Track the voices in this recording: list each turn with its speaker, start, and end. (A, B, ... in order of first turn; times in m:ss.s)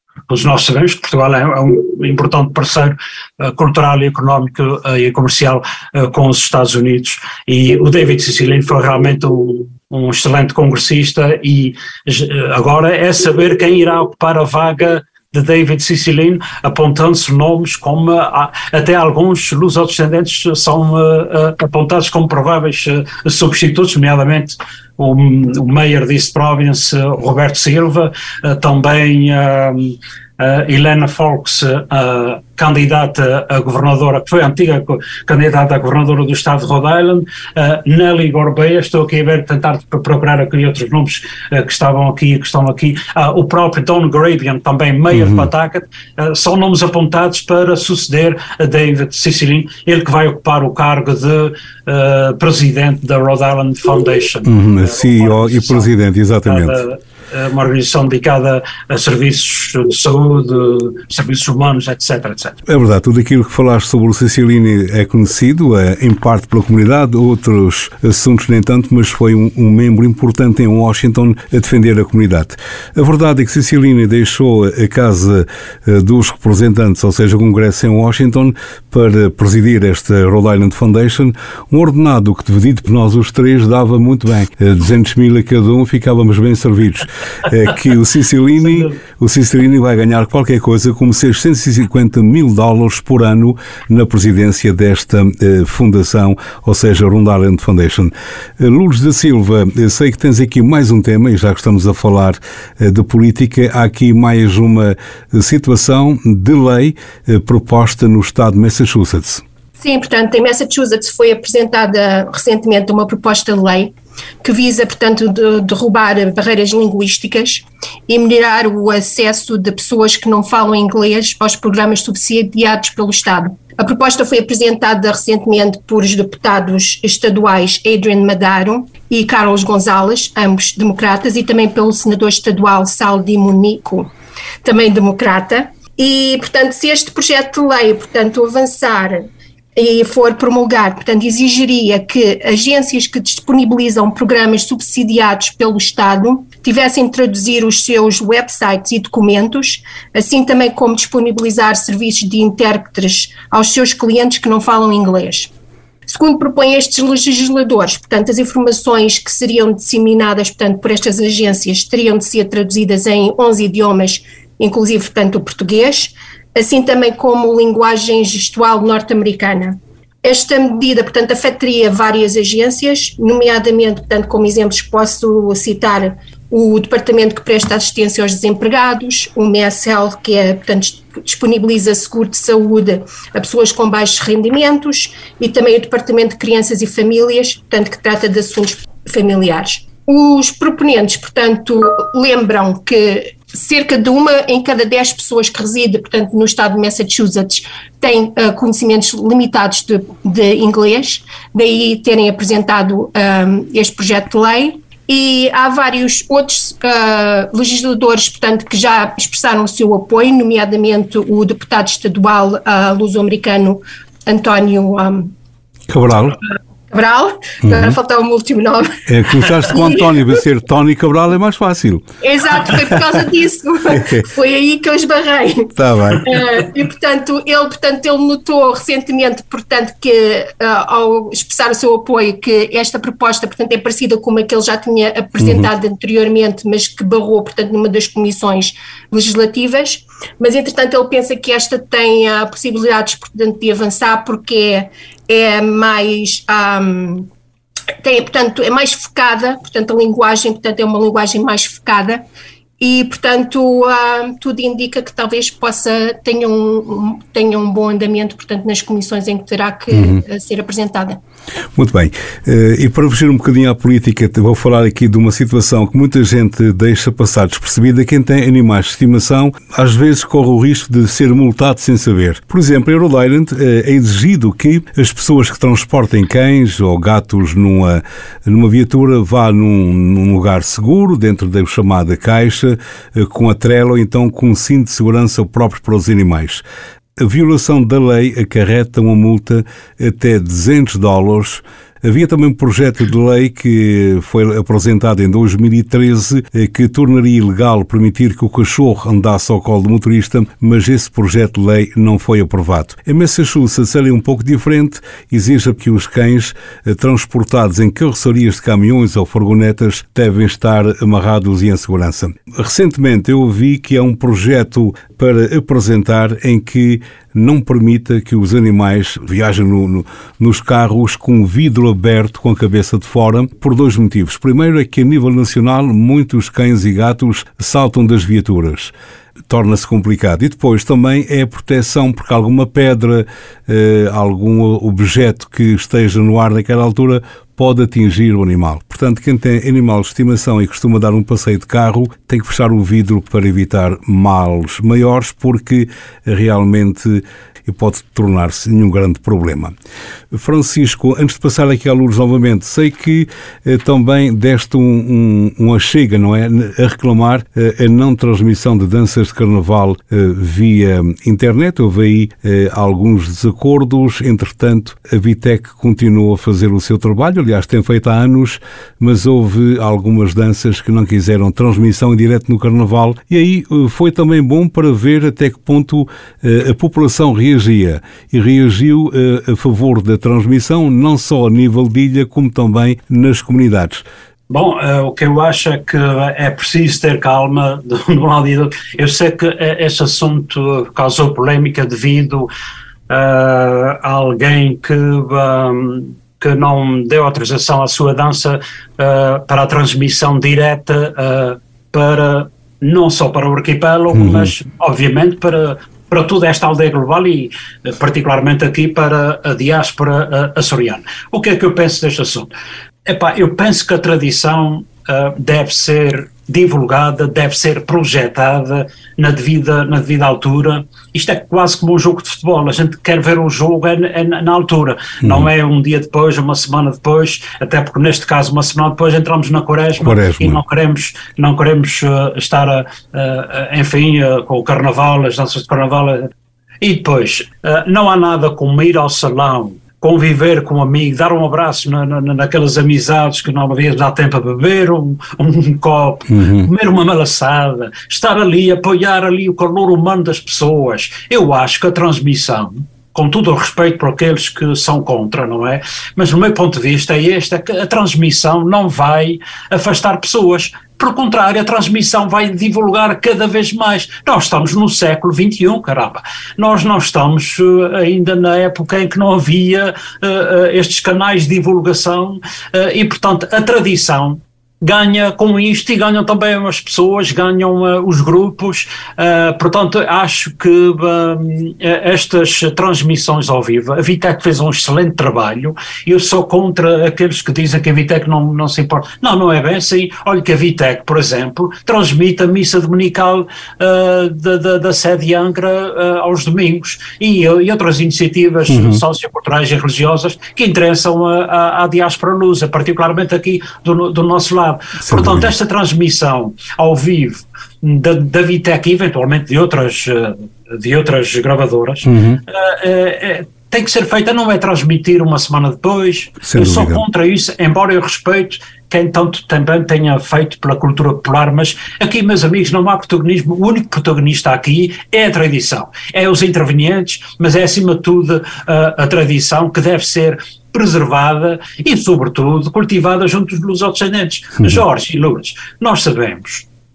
0:00.3-0:55.9 A
0:45.1-0:45.5 B
0:54.4-0:56.8 B
0:56.4-1:02.6 A
1:02.7-1:49.4 B
1:28.6-1:28.9 A
1:49.8-1:53.9 C
1:54.4-2:14.1 C
2:14.6-2:35.5 C
2:36.0-3:35.3 C
3:35.9-3:36.4 B
3:36.9-3:38.9 C
3:37.6-3:38.0 B
3:39.1-3:42.0 B
3:39.7-3:40.0 C
3:42.2-4:07.3 C
3:43.9-3:44.2 B
3:45.8-3:46.2 B
3:55.4-3:55.7 B
4:08.0-4:12.2 C
4:12.8-4:21.2 C
4:19.9-4:20.2 B
4:21.8-4:46.6 B
4:47.2-5:28.9 B
5:29.5-5:49.7 B
5:50.3-6:24.0 B
6:24.5-6:32.5 A
6:33.1-6:52.5 A
6:44.2-6:44.4 B
6:53.0-7:16.3 A
7:05.2-7:05.5 B
7:10.0-7:10.6 B
7:16.8-8:56.7 A
7:26.3-7:26.7 B
8:18.7-8:19.0 B
8:25.0-8:25.5 B
8:32.0-8:32.4 B
8:36.4-8:37.0 B